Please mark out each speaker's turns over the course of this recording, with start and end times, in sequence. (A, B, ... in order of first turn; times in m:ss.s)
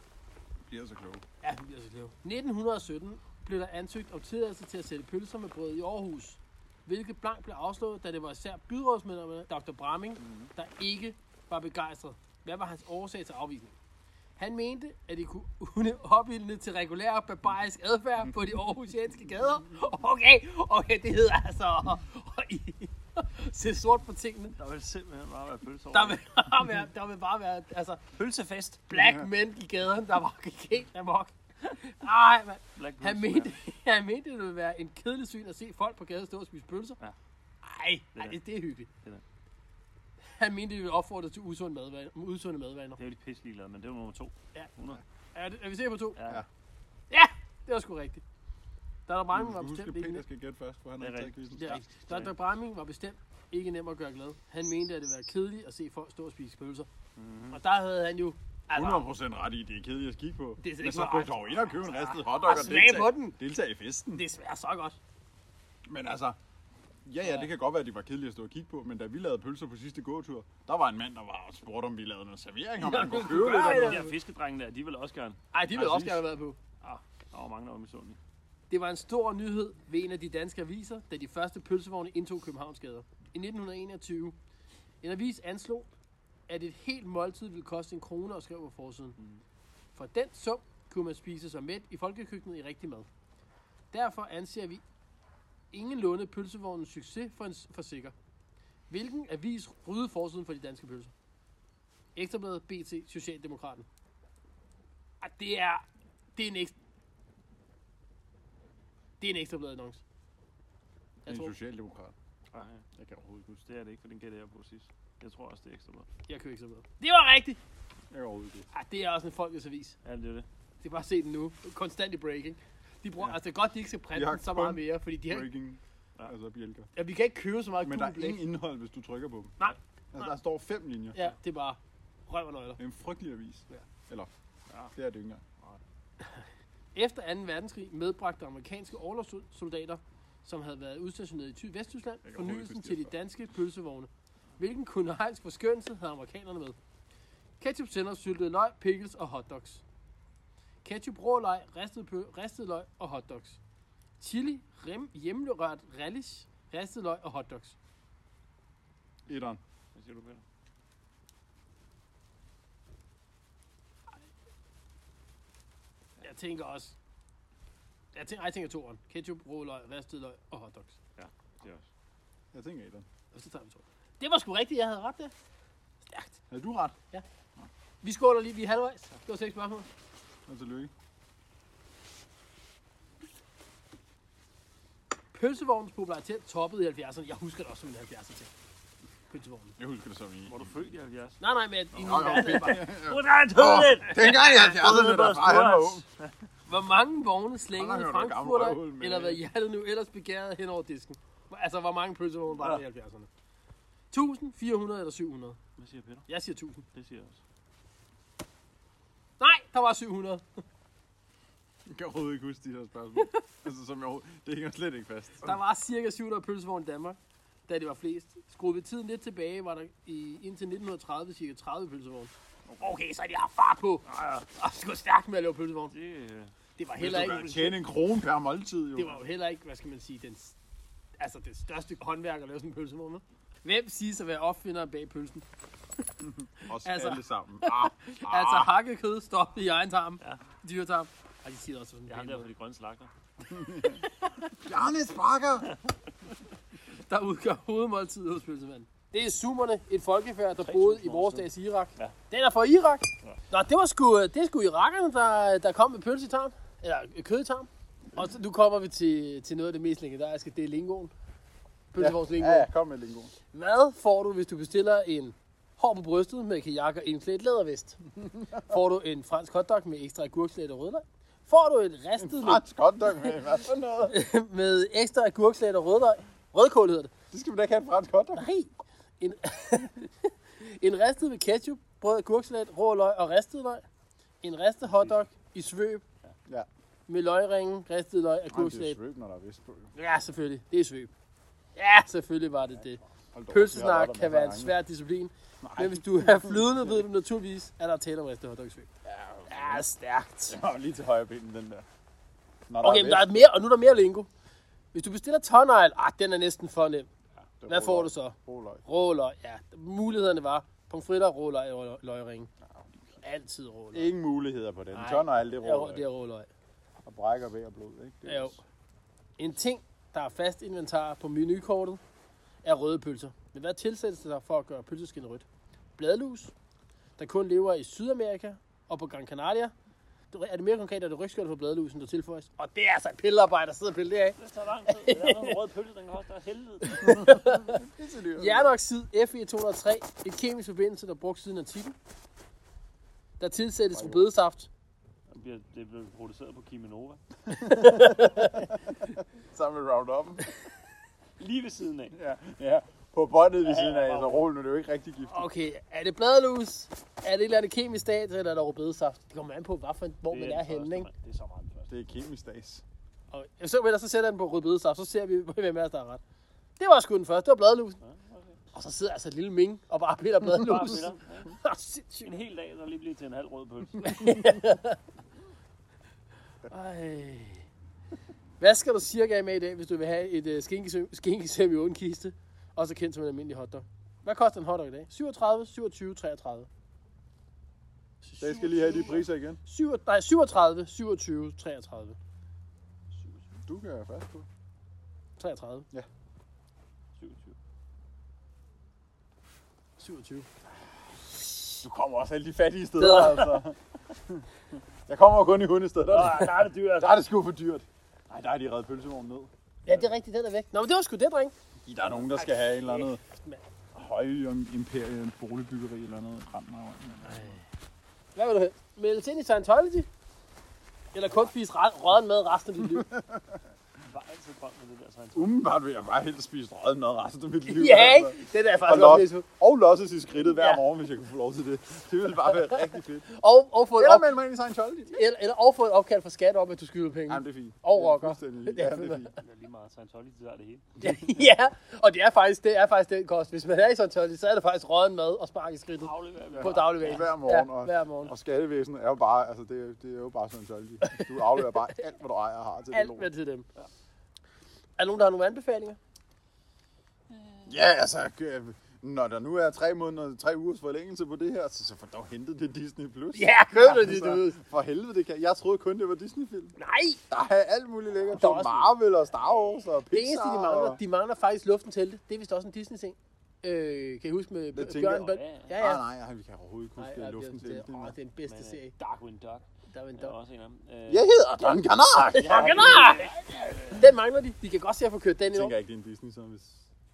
0:00.7-0:01.2 A
0:01.4-0:13.8 B
0:10.2-0:10.5 C
0:14.4-0:24.5 B
0:24.6-0:26.2 C
0:25.9-0:28.0 B
0:28.1-0:28.9 C
0:28.9-0:37.0 B
0:28.9-0:29.3 A
0:32.8-0:33.6 C
0:37.6-0:38.9 B
0:40.2-0:43.0 B
0:43.0-0:45.0 C
0:45.3-0:46.2 B
0:46.2-0:46.4 C
0:47.1-0:48.2 B
0:49.1-0:50.2 B
0:49.3-0:51.8 A
0:51.0-0:52.3 C
0:51.6-0:56.9 B
0:57.2-0:57.6 C
0:57.5-0:59.1 B
0:58.7-1:04.2 A
1:00.6-1:03.4 B
1:04.1-1:05.0 B
1:05.9-1:06.4 A
1:07.0-1:14.0 A
1:12.8-1:14.1 B
1:13.2-1:15.4 C
1:15.5-1:16.6 B
1:15.7-1:16.2 A
1:16.8-1:18.2 C
1:18.7-1:24.4 B
1:25.0-1:25.9 B
1:26.5-1:29.2 B
1:29.9-1:33.1 B
1:33.9-1:34.8 B
1:35.7-1:38.1 B
1:38.9-1:41.1 B
1:42.2-1:43.8 B
1:45.2-1:45.8 B
1:46.4-1:46.7 B
1:49.2-1:50.0 B
1:51.2-1:51.5 B
1:51.2-1:52.1 A
1:52.5-1:52.8 C
1:53.0-1:53.6 A
1:53.6-1:56.1 C
1:56.3-1:57.6 B
1:58.1-1:58.7 A
1:58.7-2:00.0 B
2:00.0-2:00.5 C
2:00.8-2:05.5 B
2:04.1-2:06.9 A
2:07.0-2:08.4 B
2:07.8-2:09.6 A
2:09.6-2:10.3 B
2:10.1-2:11.2 A
2:11.1-2:12.8 B
2:12.8-2:14.3 A
2:14.9-2:15.4 A
2:16.9-2:26.8 B
2:22.2-2:23.1 A
2:27.6-2:29.8 B
2:30.8-2:33.6 B
2:34.2-2:37.8 B
2:39.3-2:39.6 A
2:39.9-2:40.4 C
2:46.2-2:46.9 B
2:48.1-2:51.0 B
2:51.2-2:51.8 C
2:52.5-2:53.0 A
2:53.3-2:55.3 B
2:56.0-2:56.4 B
2:56.5-2:57.0 A
2:58.0-2:59.9 B
3:00.5-3:00.9 A
3:05.3-3:08.5 B
3:09.3-3:09.8 B
3:09.8-3:10.8 A
3:10.5-3:11.4 C
3:11.4-3:12.9 B
3:12.0-3:16.0 A
3:12.0-3:16.3 C
3:16.7-3:23.3 B
3:17.7-3:19.4 A
3:24.1-3:25.6 B
3:25.8-3:26.3 C
3:26.3-3:26.8 B
3:26.9-3:27.4 C
3:29.4-3:30.4 B
3:31.9-3:35.6 A
3:35.4-3:45.9 B
3:42.6-3:43.0 C
3:44.1-3:44.5 C
3:45.9-3:46.5 C
3:46.8-3:47.8 B
3:47.0-3:49.2 A
3:49.0-3:50.6 B
3:51.2-3:55.4 B
3:56.2-3:58.7 A
3:56.6-4:02.5 B
4:02.1-4:03.1 C
4:03.5-4:04.0 A
4:03.8-4:04.5 B
4:04.6-4:05.8 A
4:06.9-4:21.1 B
4:10.6-4:12.1 C
4:21.9-4:22.7 B
4:22.0-4:23.3 A
4:23.5-4:28.0 B
4:28.2-4:28.6 A
4:28.5-4:32.6 B
4:32.2-4:34.2 A
4:34.1-4:37.1 B
4:37.3-4:38.5 A
4:38.3-4:43.8 B
4:44.4-4:46.0 B
4:47.1-4:49.0 B
4:48.5-4:49.9 A
4:49.9-4:51.1 B
4:51.8-4:58.9 B
4:53.3-4:54.7 A
4:55.6-4:57.0 A
4:59.0-4:59.8 A
4:59.5-5:00.6 B
5:00.5-5:01.8 A
5:02.7-5:03.6 A
5:02.8-5:04.3 B
5:04.9-5:07.1 B
5:07.6-5:08.8 A
5:07.6-5:12.5 B
5:13.2-5:14.1 B
5:13.9-5:16.1 A
5:14.9-5:16.5 B
5:17.0-5:18.6 A
5:18.2-5:18.6 B
5:19.4-5:22.0 B
5:22.6-5:25.4 B
5:26.0-5:26.5 B
5:27.2-5:29.7 B
5:30.3-5:35.6 B
5:34.4-5:37.3 C
5:36.8-5:37.8 B
5:37.1-5:38.7 A
5:38.4-5:42.0 B
5:43.4-5:44.7 B
5:43.9-5:44.2 A
5:45.3-5:47.2 C
5:47.5-5:48.7 B
5:47.5-5:50.5 A
5:51.4-5:52.2 C
5:52.1-5:55.5 A
5:53.6-5:54.5 C
5:55.3-6:01.1 B
6:00.3-6:01.9 C
6:01.9-6:02.8 A
6:03.3-6:06.2 B
6:06.8-6:08.0 B
6:08.0-6:08.6 C
6:08.7-6:12.4 B
6:10.5-6:11.6 C
6:12.2-6:14.4 C
6:14.0-6:15.0 B
6:16.7-6:17.6 B
6:18.6-6:26.7 B
6:28.2-6:32.2 B
6:28.4-6:29.6 A
6:33.1-6:33.6 C
6:33.6-6:34.5 A
6:35.4-6:35.9 B
6:37.2-6:37.6 C
6:40.0-6:40.5 B
6:41.8-6:50.1 A
6:43.0-6:43.6 B
6:46.1-6:47.2 C
6:49.8-6:51.5 B
6:51.8-6:53.2 A
6:52.2-6:53.6 B
6:53.9-6:57.6 A
6:57.3-6:57.6 B
6:58.3-7:00.1 B
7:01.1-7:03.1 B
7:02.8-7:03.6 A
7:04.0-7:05.6 C
7:05.3-7:13.3 A
7:07.6-7:09.4 B
7:10.5-7:10.8 B
7:12.7-7:14.3 B
7:13.9-7:15.2 A
7:15.1-7:19.4 B
7:17.3-7:19.3 A
7:19.4-7:20.8 C
7:21.0-7:28.3 B
7:26.0-7:27.3 C
7:26.5-7:33.3 A
7:31.0-7:31.7 B
7:32.9-7:33.7 B
7:35.0-7:36.0 B
7:37.3-7:37.7 C
7:37.6-7:46.7 A
7:43.3-7:44.6 B
7:46.8-7:47.2 B
7:47.3-7:51.0 A
7:48.3-7:49.0 B
7:49.4-7:49.8 C
7:50.1-7:56.0 B
7:54.7-7:58.1 A
7:55.1-7:55.8 C
7:57.0-7:58.9 B
7:58.5-8:01.4 C
7:59.9-8:00.4 B
8:01.1-8:03.3 A
8:02.3-8:03.3 B
8:02.3-8:04.1 C
8:03.9-8:05.7 B
8:05.5-8:06.9 A